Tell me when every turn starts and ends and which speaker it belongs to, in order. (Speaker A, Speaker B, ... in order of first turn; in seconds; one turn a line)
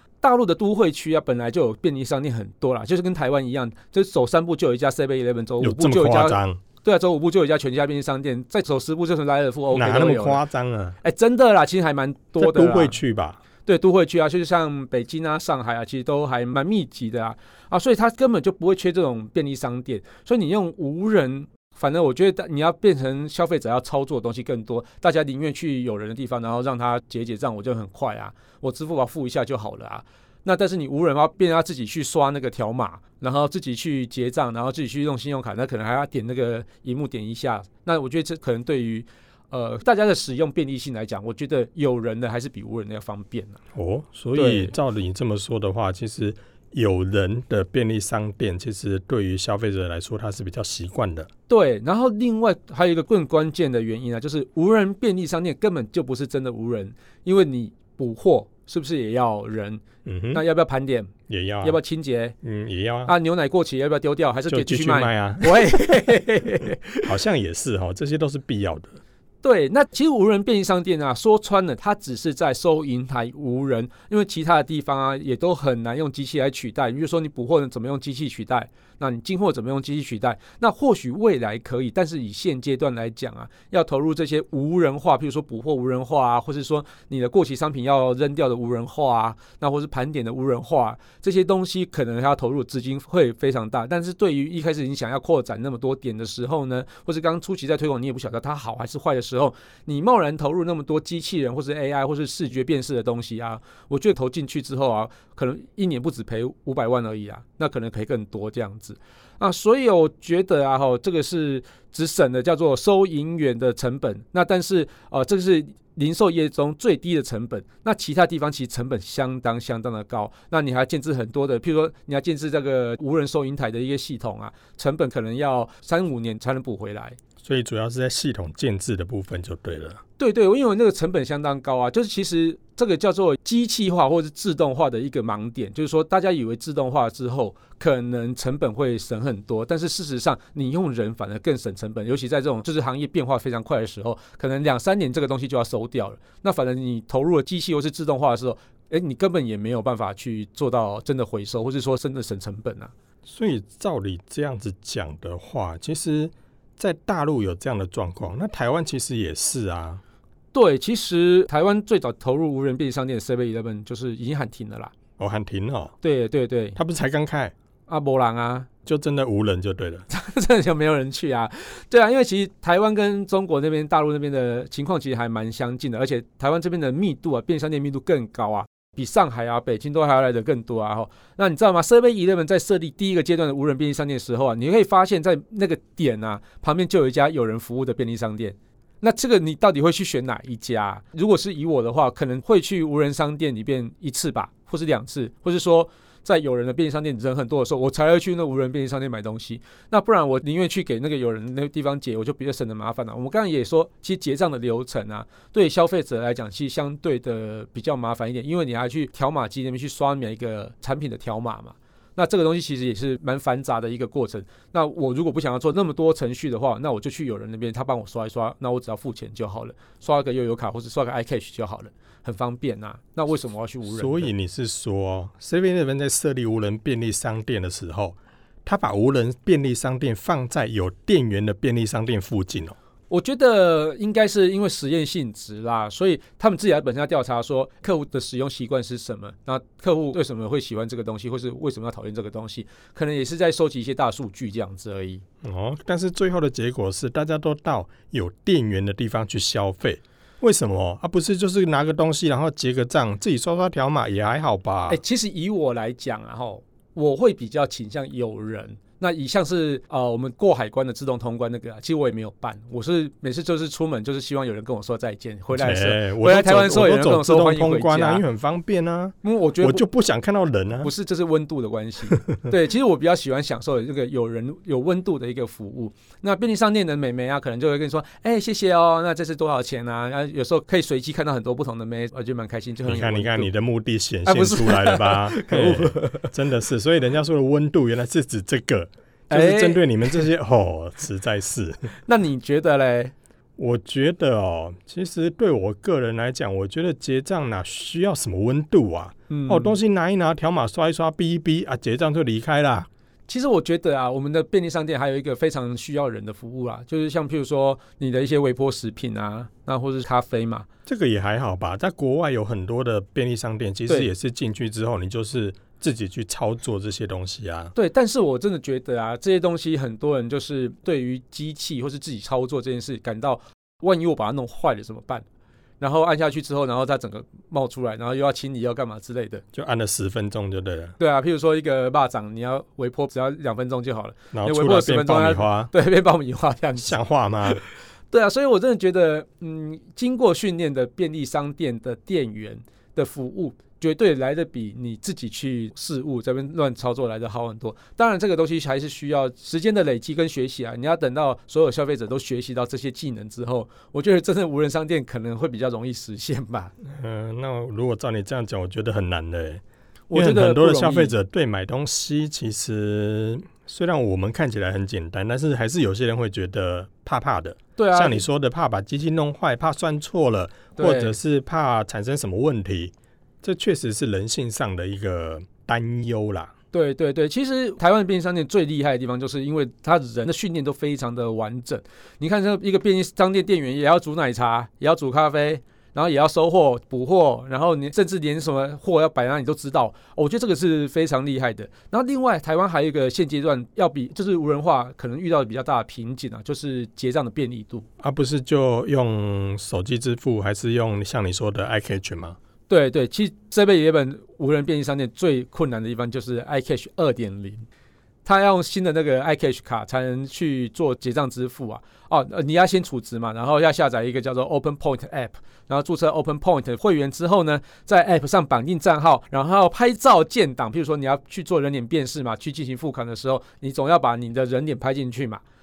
Speaker A: 0.2-10.4
Speaker B: 5.6-6.6
Speaker B: 9.7-11.0
Speaker A: 11.0-13.0
Speaker B: 12.4-13.4
Speaker A: 13.6-43.6
Speaker B: 43.7-51.3
Speaker A: 44.3-44.7
Speaker A: 51.5-62.3
Speaker B: 60.0-60.4
Speaker B: 61.3-61.8
Speaker B: 62.4-63.1
Speaker A: 63.0-67.1
Speaker B: 64.5-66.1
Speaker B: 67.0-69.0
Speaker A: 69.4-127.2
Speaker B: 127.4-130.0
Speaker A: 130.2-152.9
Speaker B: 153.2-160.0
Speaker A: 160.5-164.9
Speaker B: 165.2-165.9
Speaker A: 166.0-166.8
Speaker B: 166.8-167.5
Speaker A: 167.9-168.7
Speaker B: 168.8-170.1
Speaker A: 170.1-224.3
Speaker B: 223.9-232.8
Speaker A: 233.1-245.2
Speaker B: 245.4-255.0
Speaker A: 254.9-268.2
Speaker B: 265.5-270.9
Speaker A: 269.2-269.8
Speaker A: 270.8-283.5
Speaker B: 272.1-272.4
Speaker B: 282.8-291.9
Speaker A: 284.2-286.3
Speaker A: 289.3-290.2
Speaker A: 292.1-293.1
Speaker B: 293.6-302.9
Speaker A: 299.3-299.8
Speaker A: 303.3-310.7
Speaker B: 310.9-317.7
Speaker A: 317.7-325.2
Speaker A: 325.8-329.4
Speaker B: 329.5-330.9
Speaker A: 331.0-356.7
Speaker B: 334.3-335.7
Speaker B: 336.8-337.6
Speaker B: 356.8-359.6
Speaker A: 360.1-361.1
Speaker B: 360.1-376.5
Speaker A: 367.8-368.2
Speaker A: 370.8-371.2
Speaker A: 376.7-397.9
Speaker B: 398.0-402.4
Speaker A: 402.7-407.6
Speaker A: 408.2-425.4